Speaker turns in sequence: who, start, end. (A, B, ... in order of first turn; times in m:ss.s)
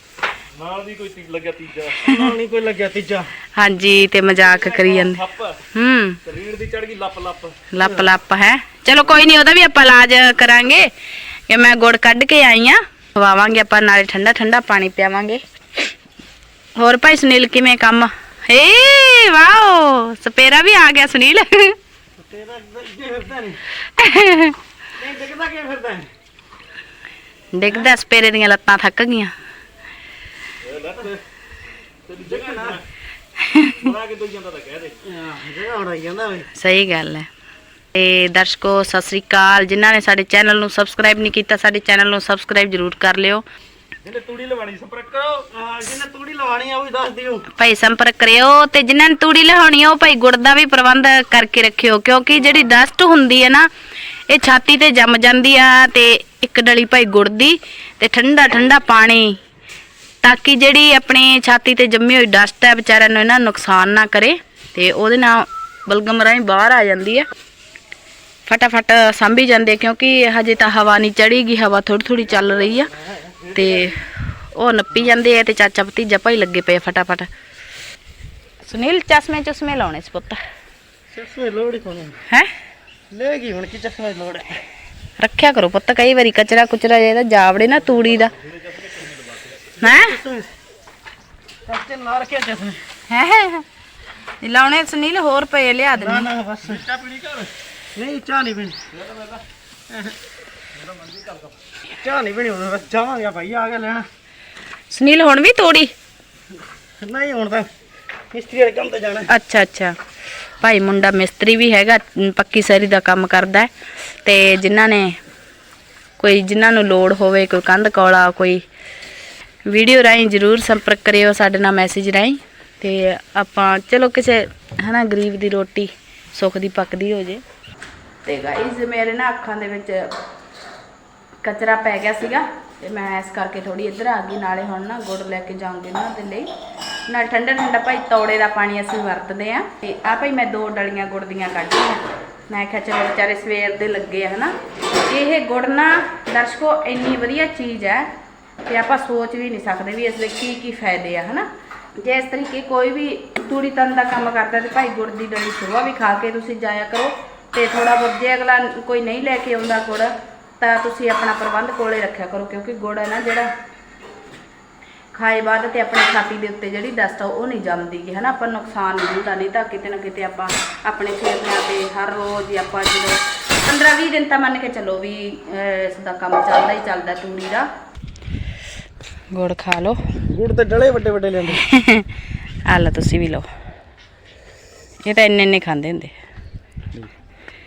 0:00.5-0:02.1 A
0:02.0-0:03.3 B
0:03.6-0:06.2 C
0:04.4-0:05.6 A
0:06.2-0:07.6 A
0:07.7-0:10.9 C
0:11.5-0:15.4 C
0:16.8-0:21.8 C
0:22.2-0:23.6 B
0:24.0-0:24.6 C
0:25.0-0:26.1 B
0:27.5-0:29.3 C
0:30.6-0:31.2 A
0:32.1-0:32.8 A
0:32.2-0:32.8 B
0:33.4-0:33.9 C
0:33.8-0:35.0 A
0:35.0-0:36.5 B
0:36.6-0:37.3 C
0:37.9-0:43.4 C
0:44.0-0:45.5 A
0:45.5-0:47.5 B
0:47.6-0:53.7 C
0:54.3-0:59.4 C
1:00.2-1:07.2 C
1:08.4-1:12.9 C
1:13.0-1:14.0 B
1:13.5-1:17.3 C
1:18.6-1:20.4 C
1:21.1-1:22.2 B
1:23.1-1:24.6 B
1:25.2-1:28.3 C
1:27.9-1:29.7 A
1:29.8-1:30.2 C
1:29.8-1:30.5 B
1:31.6-1:32.8 B
1:33.1-1:33.6 C
1:34.4-1:36.3 C
1:35.9-1:36.9 B
1:36.6-1:37.5 A
1:37.9-1:38.8 B
1:38.9-1:39.4 A
1:39.9-1:40.2 B
1:40.8-1:41.5 A
1:41.9-1:44.1 B
1:44.9-1:45.9 C
1:47.0-1:47.7 B
1:48.3-1:49.3 B
1:49.3-1:49.9 C
1:50.6-1:53.7 C
1:54.2-1:55.2 C
1:56.2-1:58.6 C
1:59.7-2:07.4 C
2:08.2-2:10.1 C
2:11.4-2:16.5 C
2:17.1-2:28.1 C
2:28.6-2:43.5 C
2:45.1-2:57.7 C
2:59.3-3:00.0 C
3:00.3-3:01.6 B
3:01.6-3:02.1 C
3:02.6-3:03.4 C
3:05.0-3:06.1 C